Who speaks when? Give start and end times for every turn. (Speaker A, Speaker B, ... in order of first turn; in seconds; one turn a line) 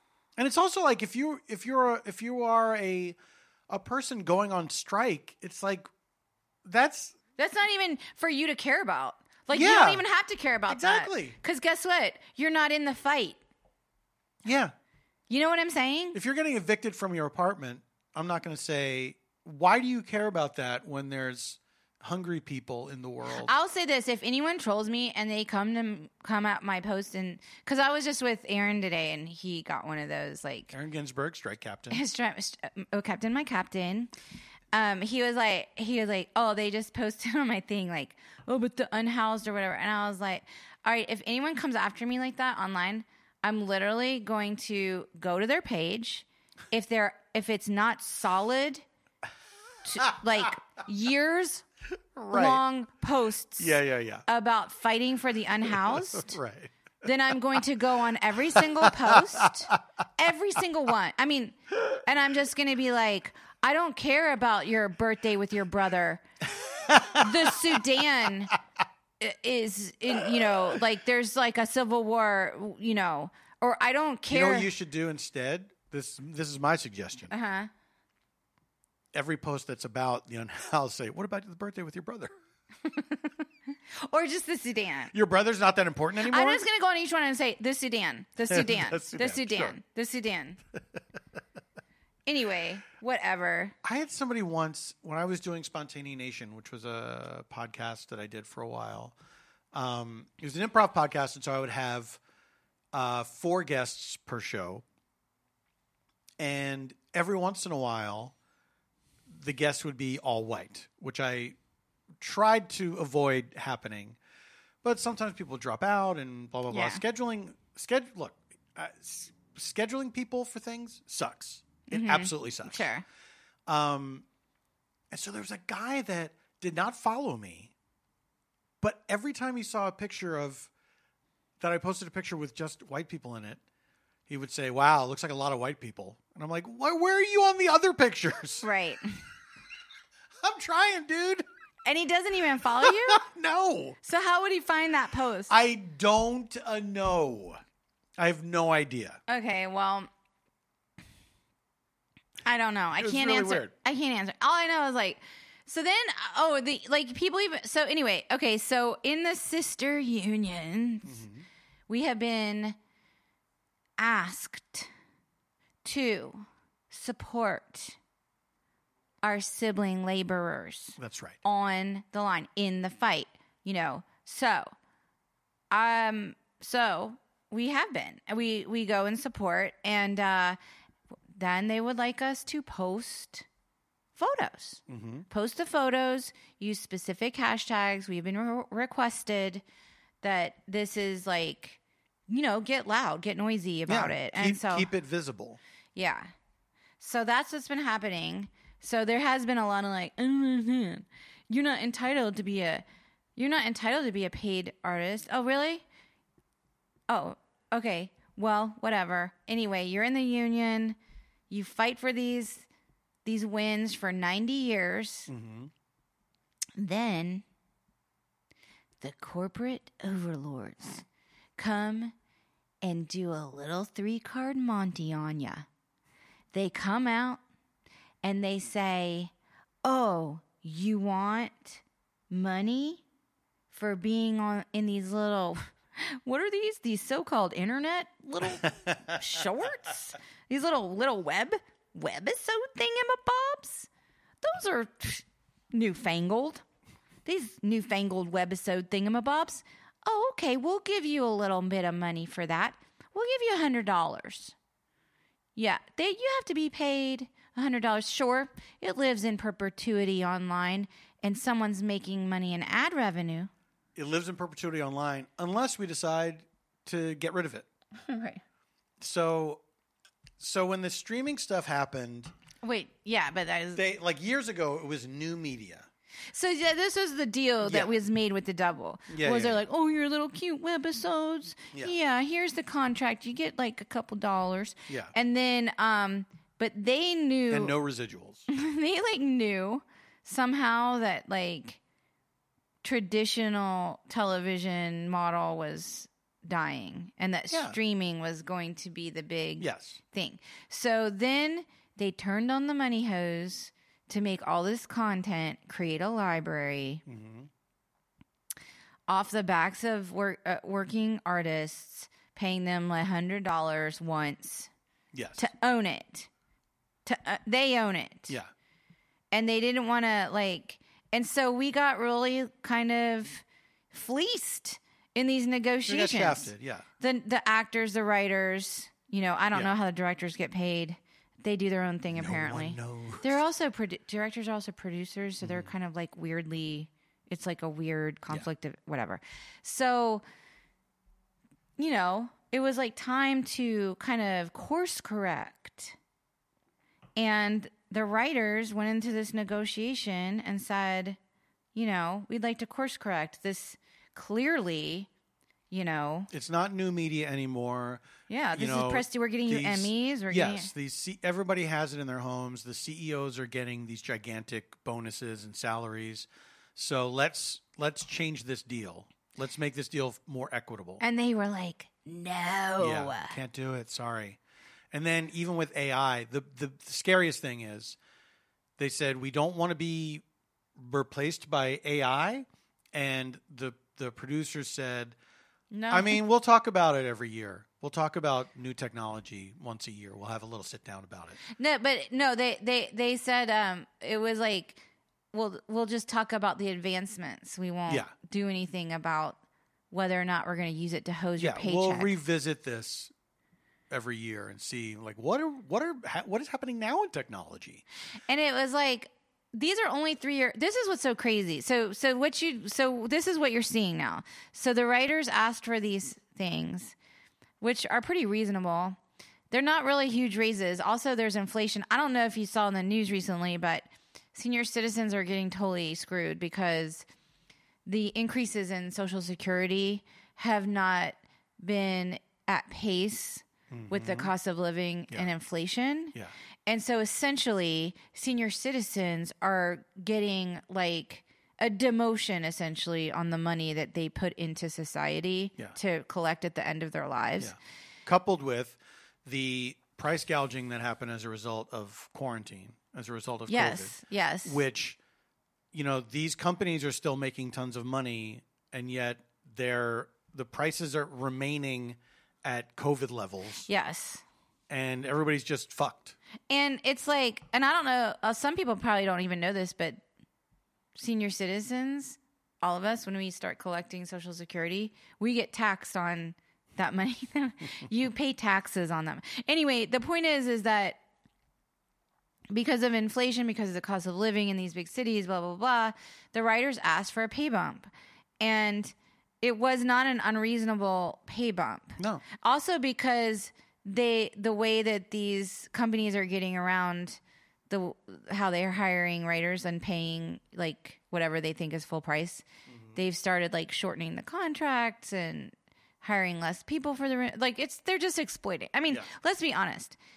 Speaker A: 0.4-3.2
Speaker A: 3.7-5.9
Speaker A: 6.7-7.2
Speaker B: 7.4-13.4
Speaker A: 9.5-10.0
Speaker A: 10.7-11.4
Speaker A: 14.4-14.7
Speaker B: 15.3-16.2
Speaker A: 16.1-23.5
Speaker B: 23.3-30.7
Speaker A: 30.7-32.0
Speaker B: 31.9-34.1
Speaker B: 34.7-48.8
Speaker B: 49.9-51.6
Speaker A: 52.1-52.6
Speaker B: 52.3-56.4
Speaker A: 53.6-54.2
Speaker A: 55.6-56.7
Speaker B: 57.0-66.2
Speaker A: 58.5-59.8
Speaker A: 66.6-67.6
Speaker B: 67.0-68.6
Speaker B: 69.2-74.7
Speaker A: 74.3-77.3
Speaker B: 77.3-77.7
Speaker A: 79.1-82.3
Speaker B: 82.8-85.1
Speaker A: 85.1-86.7
Speaker B: 86.2-90.6
Speaker A: 88.5-89.8
Speaker B: 92.3-93.8
Speaker A: 93.8-99.2
Speaker A: 99.7-102.2
Speaker A: 102.9-104.8
Speaker A: 106.4-108.3
Speaker A: 109.3-111.6
Speaker A: 112.2-114.2
Speaker A: 114.8-122.9
Speaker B: 116.7-117.0
Speaker B: 121.9-123.0
Speaker A: 123.7-124.2
Speaker A: 125.1-127.7
Speaker A: 128.8-130.7
Speaker A: 131.6-133.6
Speaker A: 134.3-138.7
Speaker B: 138.6-139.2
Speaker A: 140.4-141.4
Speaker B: 141.8-143.2
Speaker A: 142.8-144.0
Speaker B: 144.0-145.5
Speaker A: 145.5-147.6
Speaker A: 148.2-149.2
Speaker B: 149.3-150.1
Speaker B: 152.4-161.2
Speaker A: 152.9-153.7
Speaker A: 161.1-161.4
Speaker B: 161.9-162.8
Speaker B: 164.0-164.9
Speaker B: 165.8-168.0
Speaker B: 169.2-174.7
Speaker A: 171.0-171.4
Speaker B: 175.7-180.6
Speaker B: 181.3-183.5
Speaker B: 184.2-189.6
Speaker A: 184.9-185.3
Speaker B: 190.2-194.9
Speaker A: 193.9-195.6
Speaker B: 195.9-196.3
Speaker B: 197.0-202.8
Speaker B: 203.4-205.8
Speaker B: 207.1-211.0
Speaker B: 211.5-212.7
Speaker B: 213.2-215.3
Speaker A: 215.3-215.7
Speaker B: 216.8-217.4
Speaker B: 219.0-221.1
Speaker B: 221.6-222.1
Speaker B: 222.8-225.7
Speaker B: 226.5-227.4
Speaker B: 228.2-229.3
Speaker B: 229.8-233.0
Speaker B: 233.7-243.9
Speaker A: 238.5-239.1
Speaker B: 244.4-246.6
Speaker B: 247.2-254.6
Speaker B: 255.6-263.5
Speaker A: 264.0-267.7
Speaker B: 268.0-268.4
Speaker A: 269.0-269.6
Speaker A: 270.4-272.3
Speaker B: 272.6-273.8
Speaker A: 273.8-275.9
Speaker B: 276.3-287.8
Speaker A: 277.6-278.0
Speaker A: 279.1-279.6
Speaker A: 284.9-285.1
Speaker A: 287.5-288.5
Speaker B: 288.5-291.8
Speaker B: 292.8-307.0
Speaker A: 297.5-297.8
Speaker A: 299.6-300.0
Speaker A: 307.1-307.5
Speaker B: 309.1-314.7
Speaker A: 315.1-315.5
Speaker B: 315.4-316.3
Speaker B: 317.1-318.4
Speaker B: 319.3-340.2
Speaker A: 325.9-326.9
Speaker A: 332.1-333.4
Speaker A: 335.4-335.7
Speaker B: 341.8-346.0
Speaker B: 347.2-351.2
Speaker B: 351.8-355.1
Speaker B: 355.7-356.3
Speaker A: 356.3-358.0
Speaker B: 358.3-360.7
Speaker A: 358.6-371.0
Speaker B: 371.0-373.4
Speaker A: 372.8-374.4
Speaker A: 374.9-378.0
Speaker A: 378.8-380.2
Speaker A: 380.8-385.1
Speaker B: 385.7-386.2
Speaker A: 385.9-391.4
Speaker B: 391.6-394.8
Speaker B: 395.3-399.4
Speaker B: 399.9-402.1
Speaker A: 401.4-403.1
Speaker A: 403.9-407.8
Speaker B: 408.3-416.9
Speaker B: 417.6-419.0
Speaker B: 419.5-427.1
Speaker B: 427.9-447.6
Speaker A: 433.7-434.3
Speaker A: 447.4-455.0
Speaker B: 453.5-454.6
Speaker A: 455.7-463.7
Speaker B: 463.7-464.2
Speaker A: 464.7-466.2
Speaker B: 466.5-470.0
Speaker B: 471.0-481.0
Speaker B: 482.5-487.9
Speaker B: 488.4-510.0
Speaker A: 492.0-492.2
Speaker A: 502.7-503.0